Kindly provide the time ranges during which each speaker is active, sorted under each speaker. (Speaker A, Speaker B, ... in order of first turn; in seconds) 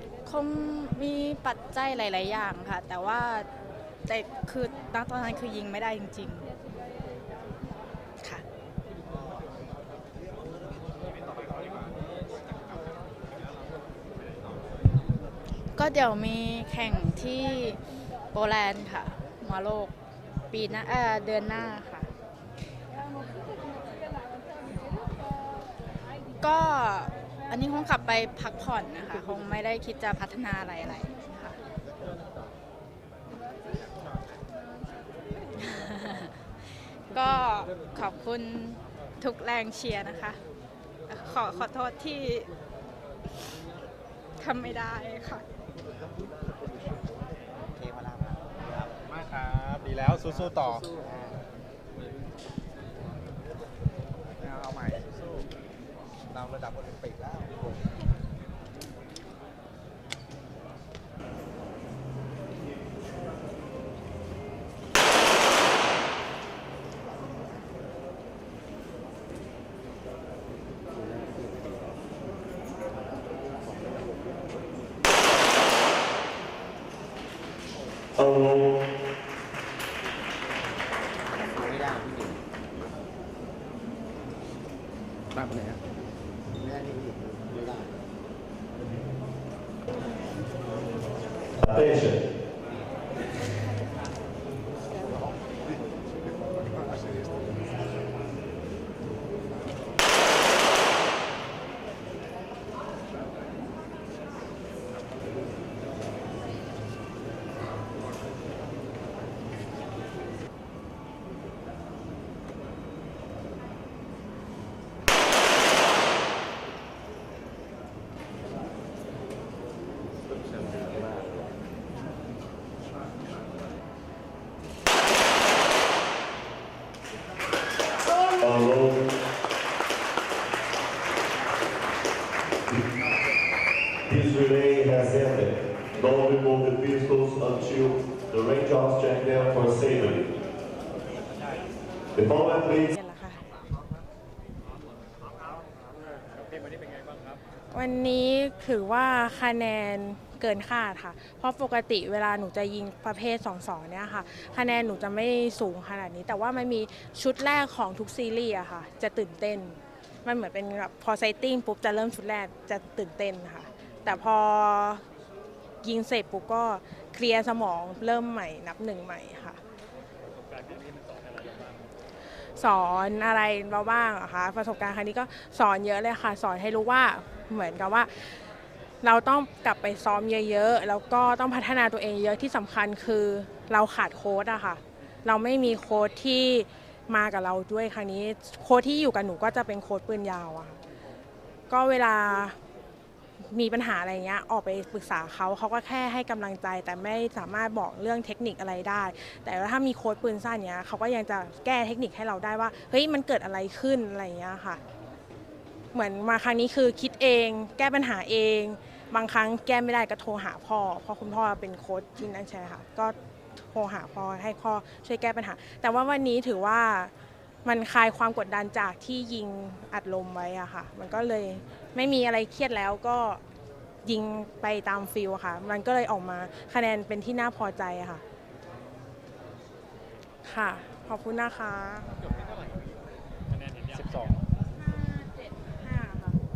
Speaker A: 0.2-3.5, 4.1-6.5, 15.7-19.9, 20.5-22.1, 26.4-31.6, 35.7-36.3, 37.1-40.4, 41.1-42.5, 44.4-45.4
Speaker B: 11.3-12.0, 49.0-50.9, 146.3-147.4, 170.4-171.9, 232.1-234.4
Speaker C: 47.7-49.0, 51.0-51.4, 81.4-82.4, 86.5-88.0
Speaker D: 50.5-50.8, 54.4-55.4, 56.3-57.5, 85.3-85.8, 233.9-234.4
Speaker E: 78.1-78.9, 91.6-92.2, 128.4-129.0, 134.0-140.3, 142.1-142.9
Speaker F: 142.8-143.4, 147.7-165.0, 165.8-169.6, 172.6-178.4, 179.0-190.8, 191.7-192.6, 193.4-204.8, 205.9-217.1, 217.6-223.4, 224.0-228.2, 230.4-232.2, 234.7-236.4